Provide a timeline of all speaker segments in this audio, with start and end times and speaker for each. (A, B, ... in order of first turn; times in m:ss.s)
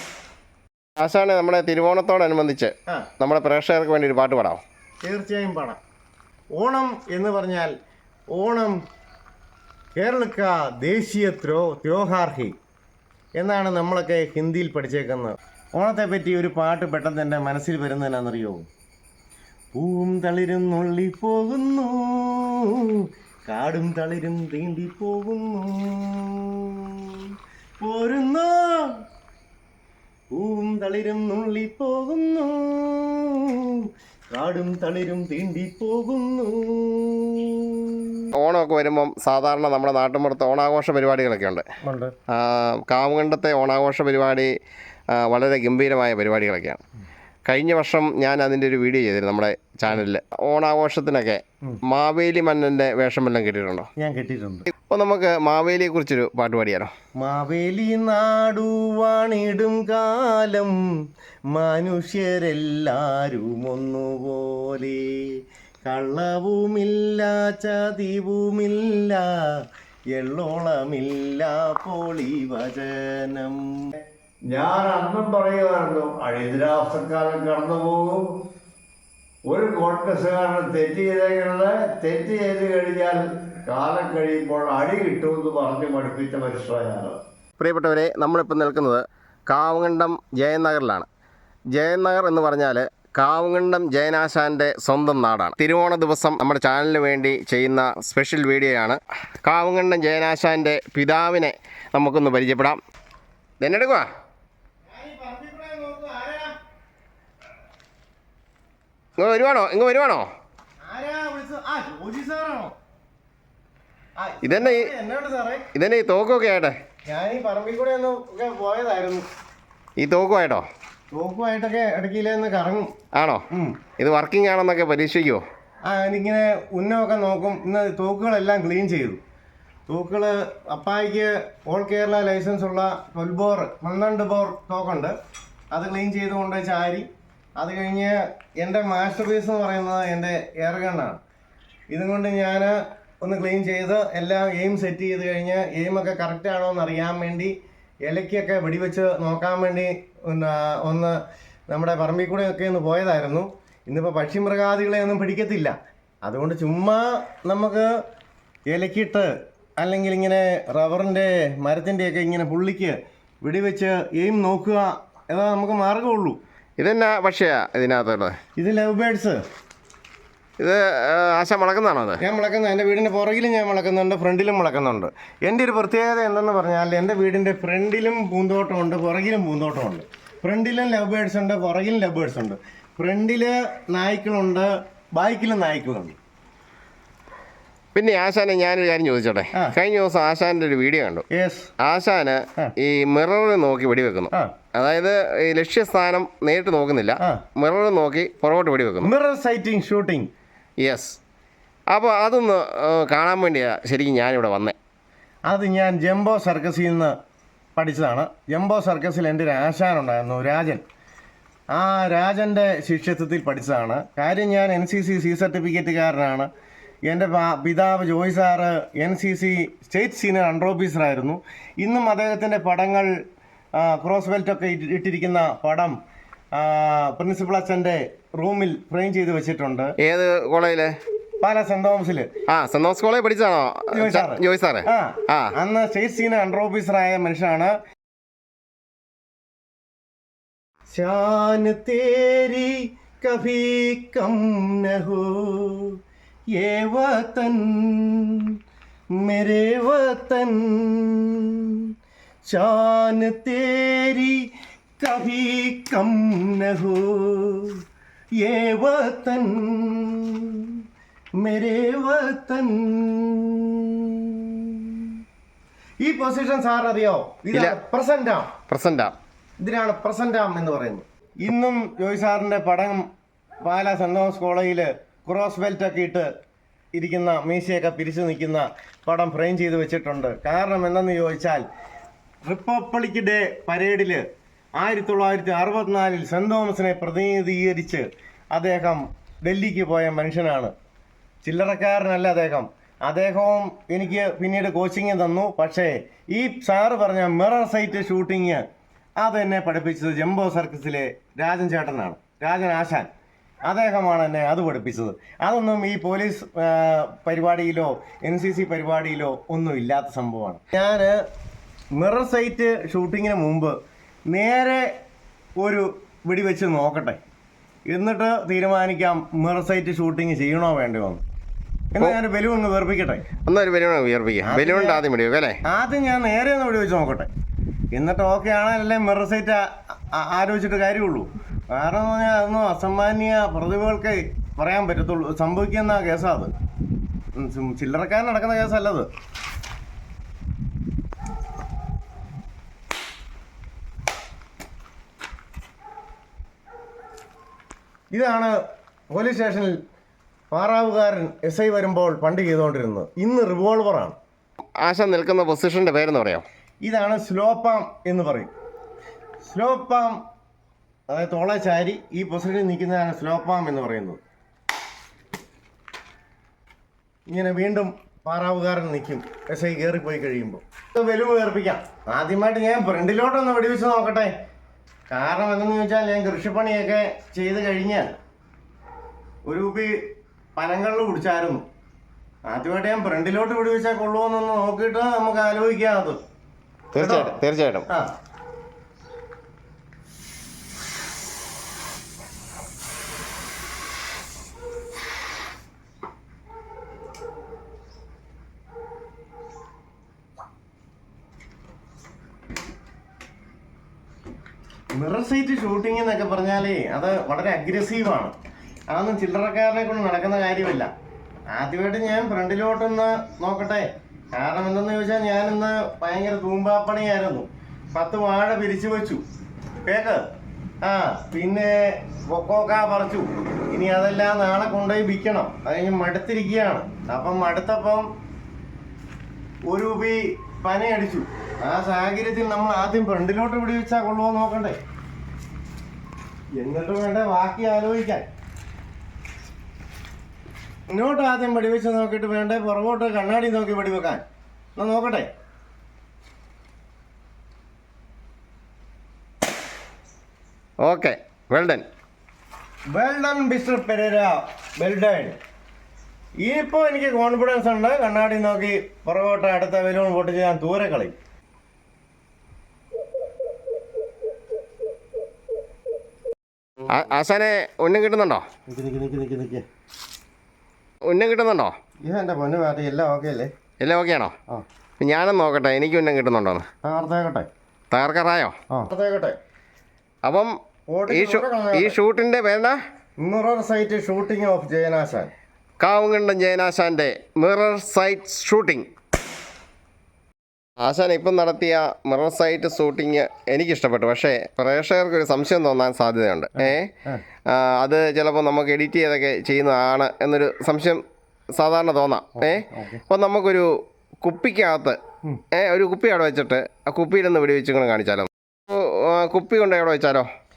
0:01.0-0:04.6 A
0:05.0-0:05.8 B
0:06.6-0:07.7 B
0:08.3-0:08.8 B
0:10.0-0:12.6 B
0:13.4-0:18.7 B
0:19.7-0:29.0 B
0:30.3-0:38.2 B
0:38.4-0:41.6 A
0:41.8-0:42.1 B
0:42.3-0:44.5 A
0:45.2-0:46.8 A
0:47.5-0:53.9 A
0:54.0-0:54.7 B
0:54.9-0:56.9 A
0:57.2-1:00.8 B
1:01.5-1:13.8 B
1:14.5-1:18.2 C
1:19.5-1:27.2 C
1:27.6-1:31.1 A
1:31.7-1:42.8 A
1:43.6-1:44.1 A
1:44.9-1:46.6 B
1:49.2-1:50.3 A
1:50.8-1:52.8 B
1:54.2-1:55.6 B
1:54.4-1:54.9 A
1:55.7-1:56.8 A
1:57.1-1:59.2 B
2:00.0-2:00.7 A
2:01.1-2:02.9 B
2:03.2-2:03.4 A
2:03.5-2:03.8 B
2:04.0-2:05.4 A
2:05.8-2:09.2 B
2:09.9-2:15.1 B
2:15.7-2:17.1 B
2:17.6-2:21.2 B
2:21.9-2:37.9 B
2:38.7-2:46.4 B
2:46.8-2:48.4 A
2:48.6-2:49.4 B
2:50.6-2:52.2 A
2:52.2-3:06.2 B
3:08.0-3:11.2 A
3:11.3-3:11.7 B
3:11.8-3:19.1 A
3:19.0-3:20.3 B
3:20.8-3:21.2 A
3:21.9-3:24.8 A
3:25.5-3:27.2 B
3:27.8-3:30.8 B
3:31.7-3:36.5 B
3:37.1-3:43.1 B
3:43.8-3:46.0 B
3:46.5-3:49.9 B
3:50.0-3:51.0 A
3:51.4-3:52.3 B
3:52.5-3:55.6 A
3:53.9-3:57.8 B
4:00.9-4:06.0 B
4:06.5-4:08.5 B
4:09.2-4:11.9 B
4:12.5-4:17.8 B
4:18.4-4:20.8 B
4:21.4-4:25.1 B
4:26.0-4:28.5 B
4:27.5-4:27.8 A
4:28.7-4:29.2 A
4:29.6-4:33.1 B
4:33.6-4:36.3 B
4:37.0-4:41.7 B
4:42.4-4:44.3 B
4:44.8-4:50.7 B
4:51.4-4:58.6 B
4:59.2-5:03.1 B
5:03.7-5:11.2 B
5:12.0-5:13.8 B
5:14.3-5:14.9 B
5:15.6-5:17.2 B
5:17.9-5:21.2 B
5:21.9-5:23.2 B
5:23.5-5:25.6 A
5:24.4-5:25.0 B
5:25.7-5:27.3 B
5:27.9-5:36.5 B
5:37.4-5:39.1 B
5:48.1-5:48.6 B
5:49.1-5:49.8 B
5:50.5-5:54.2 B
5:54.8-5:56.4 A
5:56.8-5:58.5 B
5:59.4-6:00.2 B
6:01.1-6:04.2 B
6:07.3-6:14.3 B
6:15.1-6:18.1 B
6:19.5-6:19.9 B
6:20.6-6:21.7 B
6:22.5-6:26.2 B
6:26.9-6:27.9 A
6:27.0-6:27.4 B
6:44.9-6:48.3 B
6:48.9-6:50.9 B
6:51.5-6:59.2 B
6:59.9-7:00.3 B
7:00.8-7:08.1 B
7:09.7-7:14.8 B
7:16.6-7:18.3 B
7:20.9-7:24.2 B
7:24.8-7:25.3 B
7:30.8-7:31.8 A
7:32.9-7:35.4 B
7:36.4-7:41.2 B
7:46.9-7:48.4 A
7:48.7-7:49.6 B
7:51.1-7:51.7 A
7:52.0-7:53.5 B
7:53.8-7:54.3 A
7:55.0-7:56.6 A
7:56.8-7:57.5 B
7:57.9-7:58.6 A
7:58.7-7:59.4 B
8:00.2-8:00.6 A
8:00.9-8:02.0 B
8:01.1-8:02.8 A
8:03.2-8:05.3 B
8:05.8-8:08.9 A
8:10.8-8:16.9 A
8:16.6-8:17.2 B
8:17.5-8:21.0 A
8:21.5-8:23.7 A
8:22.4-8:23.0 B
8:24.2-8:25.0 A
8:25.5-8:30.3 A